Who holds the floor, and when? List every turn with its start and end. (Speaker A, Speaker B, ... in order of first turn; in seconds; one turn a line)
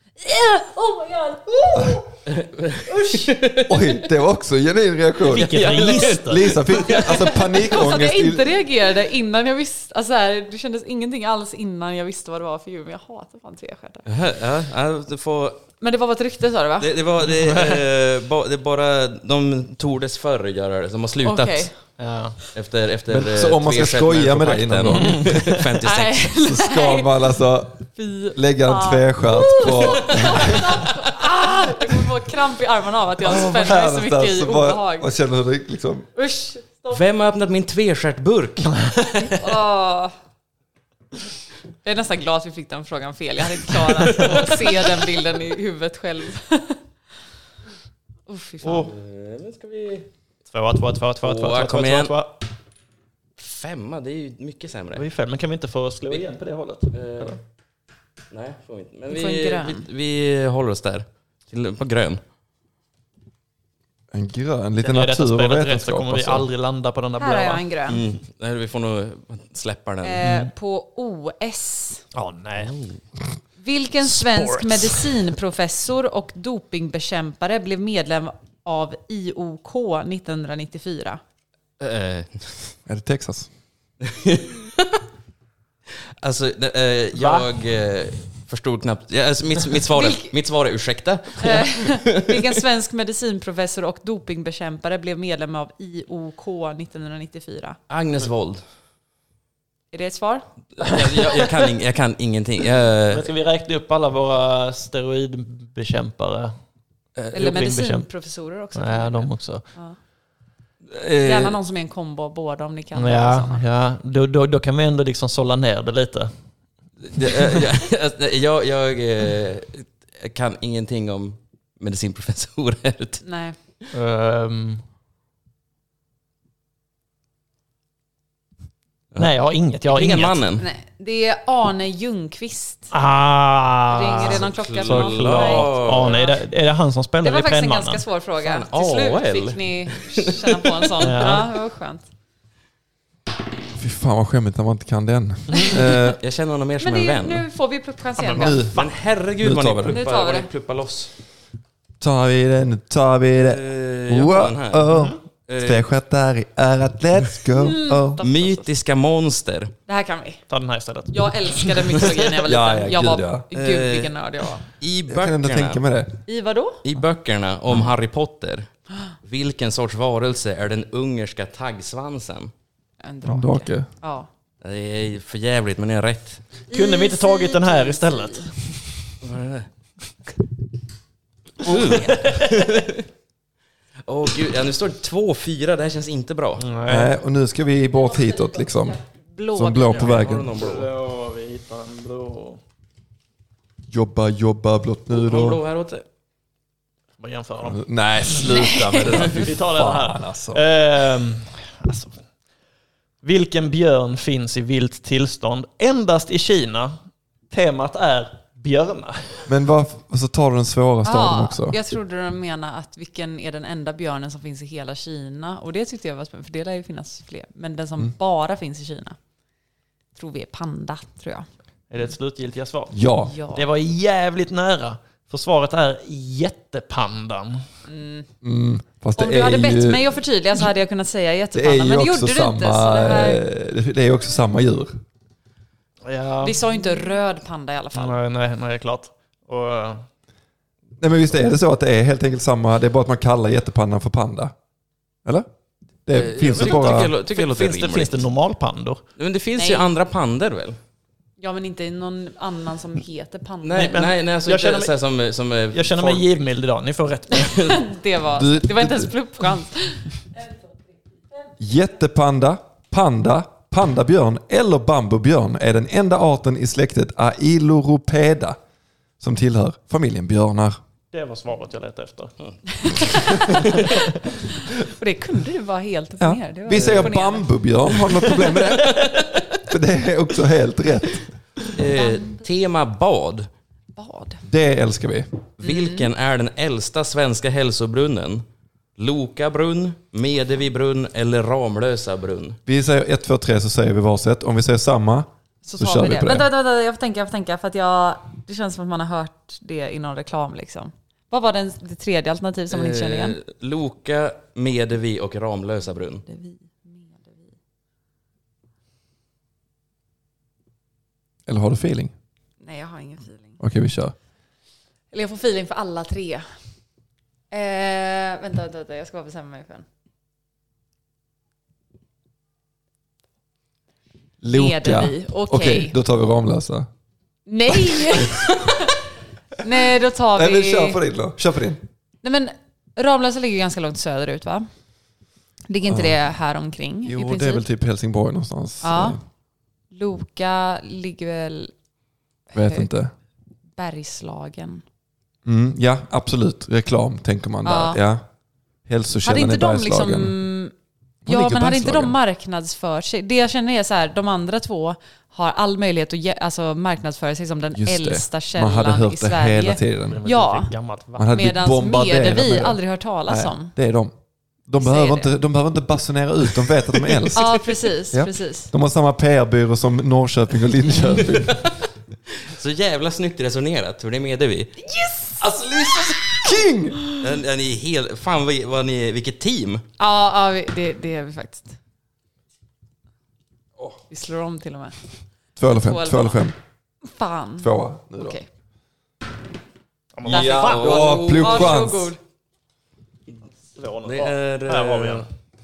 Speaker A: 0.2-2.1
Speaker B: 2.3-3.9
Speaker A: 2.9-3.3
Speaker C: 3.6-8.6
Speaker B: 5.2-7.2
Speaker D: 5.3-6.6
Speaker A: 6.9-14.1
Speaker B: 14.1-15.6
Speaker A: 15.8-16.9
Speaker B: 16.8-21.7
Speaker D: 17.2-17.8
Speaker A: 21.2-21.7
Speaker D: 22.0-22.4
Speaker B: 22.5-26.3
Speaker C: 23.1-25.6
Speaker D: 24.9-25.4
Speaker A: 25.8-27.1
Speaker C: 26.4-30.8
Speaker A: 27.9-35.1
Speaker C: 33.2-36.1
Speaker A: 36.1-37.0
Speaker B: 36.9-39.2
Speaker A: 39.3-40.1
Speaker A: 41.8-46.8
Speaker D: 44.1-44.5
Speaker A: 48.3-48.9
Speaker D: 48.6-48.9
Speaker B: 48.9-50.1
Speaker D: 50.5-52.4
Speaker B: 51.2-52.1
Speaker B: 53.4-55.0
Speaker D: 54.9-57.4
Speaker B: 56.9-57.4
Speaker B: 58.3-62.2
Speaker A: 59.1-59.9
Speaker C: 64.1-66.5
Speaker D: 64.8-67.7
Speaker A: 67.2-68.0
Speaker B: 67.9-70.2
Speaker A: 70.0-72.0
Speaker D: 70.2-70.5
Speaker D: 72.1-72.7
Speaker B: 72.5-73.0
Speaker A: 73.6-81.2
Speaker D: 74.0-75.2
Speaker B: 81.8-82.7
Speaker C: 82.8-83.5
Speaker B: 84.0-85.0
Speaker B: 86.2-92.4
Speaker D: 87.1-87.5
Speaker A: 89.9-90.3
Speaker A: 91.4-97.8
Speaker B: 97.9-98.6
Speaker A: 99.9-100.4
Speaker B: 100.8-103.3
Speaker D: 100.8-101.5
Speaker D: 103.1-106.5
Speaker D: 107.2-108.1
Speaker A: 107.3-110.0
Speaker D: 108.7-109.6
Speaker B: 110.9-111.6
Speaker A: 111.2-113.6
Speaker D: 112.9-116.3
Speaker B: 117.1-123.2
Speaker A: 123.2-123.5
Speaker D: 123.9-124.8
Speaker D: 129.2-130.4
Speaker B: 129.8-130.6
Speaker A: 130.6-132.9
Speaker D: 132.9-138.0
Speaker A: 133.9-136.4
Speaker B: 134.2-136.2
Speaker A: 137.2-142.1
Speaker B: 138.4-141.0
Speaker D: 141.0-141.5
Speaker C: 143.7-146.2
Speaker B: 146.0-147.4
Speaker A: 146.8-148.6
Speaker D: 148.2-148.9
Speaker C: 148.4-148.8
Speaker B: 148.7-151.1
Speaker C: 149.4-150.0
Speaker A: 149.9-150.5
Speaker C: 152.0-158.2
Speaker B: 153.4-154.9
Speaker B: 155.5-155.9
Speaker A: 157.5-158.7
Speaker B: 158.2-159.7
Speaker A: 159.9-160.4
Speaker D: 160.5-162.1
Speaker A: 161.1-164.6
Speaker C: 162.4-163.4
Speaker B: 163.5-164.1
Speaker B: 164.8-165.8
Speaker C: 165.1-166.2
Speaker A: 166.2-166.8
Speaker B: 166.8-168.7
Speaker B: 169.2-172.5
Speaker A: 173.0-174.3
Speaker C: 173.2-173.9
Speaker B: 174.6-176.4
Speaker A: 176.7-178.5
Speaker D: 176.7-178.8
Speaker B: 179.2-179.7
Speaker B: 181.6-183.0
Speaker D: 181.6-182.7
Speaker B: 184.1-186.7
Speaker D: 186.6-187.1
Speaker C: 186.8-189.0
Speaker A: 188.1-190.2
Speaker C: 189.5-190.5
Speaker B: 189.9-190.9
Speaker D: 190.5-192.6
Speaker C: 193.9-195.6
Speaker B: 195.1-196.0
Speaker D: 197.2-198.4
Speaker C: 197.6-200.6
Speaker D: 199.2-202.2
Speaker D: 203.2-207.0
Speaker D: 207.5-209.5
Speaker C: 209.5-211.8
Speaker A: 211.0-219.2
Speaker A: 220.1-221.5
Speaker D: 221.9-223.0
Speaker C: 222.9-223.3
Speaker A: 223.2-223.7
Speaker D: 223.5-227.6
Speaker A: 227.9-228.3
Speaker C: 228.4-230.0
Speaker A: 229.2-233.4
Speaker C: 231.5-235.0
Speaker D: 236.0-236.6
Speaker A: 236.4-238.2
Speaker D: 237.9-240.0
Speaker C: 241.0-244.5
Speaker C: 246.0-247.1
Speaker B: 246.1-248.2
Speaker D: 246.5-249.0
Speaker B: 249.2-250.8
Speaker A: 249.6-249.9
Speaker A: 251.4-254.0
Speaker B: 253.6-256.3
Speaker D: 253.7-254.9
Speaker D: 255.7-257.8
Speaker A: 257.5-260.1
Speaker C: 258.3-259.1
Speaker C: 261.6-268.6
Speaker C: 269.2-270.8
Speaker D: 271.1-272.3
Speaker A: 272.8-273.9
Speaker D: 273.6-274.0
Speaker A: 274.6-277.5
Speaker C: 276.2-279.1
Speaker B: 276.7-277.1
Speaker B: 278.8-279.4
Speaker C: 279.7-281.2
Speaker B: 281.7-283.5
Speaker A: 281.9-282.4
Speaker A: 283.9-284.4
Speaker C: 284.5-285.3
Speaker B: 285.6-288.4
Speaker A: 285.6-286.1
Speaker B: 289.0-292.6
Speaker C: 292.7-296.5
Speaker A: 295.6-303.4
Speaker B: 302.7-306.2
Speaker A: 306.2-307.5
Speaker C: 311.5-312.1
Speaker A: 312.6-313.6
Speaker C: 313.6-314.1
Speaker A: 315.1-316.4
Speaker A: 317.5-319.8
Speaker C: 324.4-326.9
Speaker A: 324.5-325.9
Speaker A: 327.4-329.0
Speaker C: 327.7-328.6
Speaker A: 329.6-331.0
Speaker C: 330.3-331.8
Speaker A: 332.2-334.7
Speaker A: 335.7-337.6
Speaker C: 335.9-336.2
Speaker C: 337.0-339.2
Speaker A: 338.8-339.2
Speaker A: 339.9-341.7
Speaker A: 342.5-342.9
Speaker C: 342.5-343.1
Speaker A: 343.8-344.8
Speaker C: 345.4-348.2
Speaker A: 347.6-348.0
Speaker C: 348.9-350.3
Speaker A: 349.2-350.7
Speaker C: 351.2-352.1
Speaker A: 351.2-360.7
Speaker C: 357.8-360.2
Speaker D: 360.1-361.3
Speaker C: 361.1-364.1
Speaker A: 361.3-363.7
Speaker C: 364.7-367.6
Speaker A: 364.8-365.3
Speaker A: 367.3-368.7
Speaker C: 368.1-371.6
Speaker B: 371.3-371.7
Speaker B: 372.4-374.8
Speaker A: 374.9-375.4
Speaker C: 375.4-377.0
Speaker B: 377.2-379.8
Speaker A: 380.0-381.8
Speaker A: 384.1-384.9
Speaker C: 385.6-386.5
Speaker A: 385.7-386.4
Speaker A: 387.0-388.4
Speaker C: 387.6-388.4
Speaker D: 390.1-391.1
Speaker B: 390.3-391.9
Speaker C: 390.3-392.1
Speaker A: 390.3-392.2
Speaker D: 393.7-395.3
Speaker B: 394.0-395.2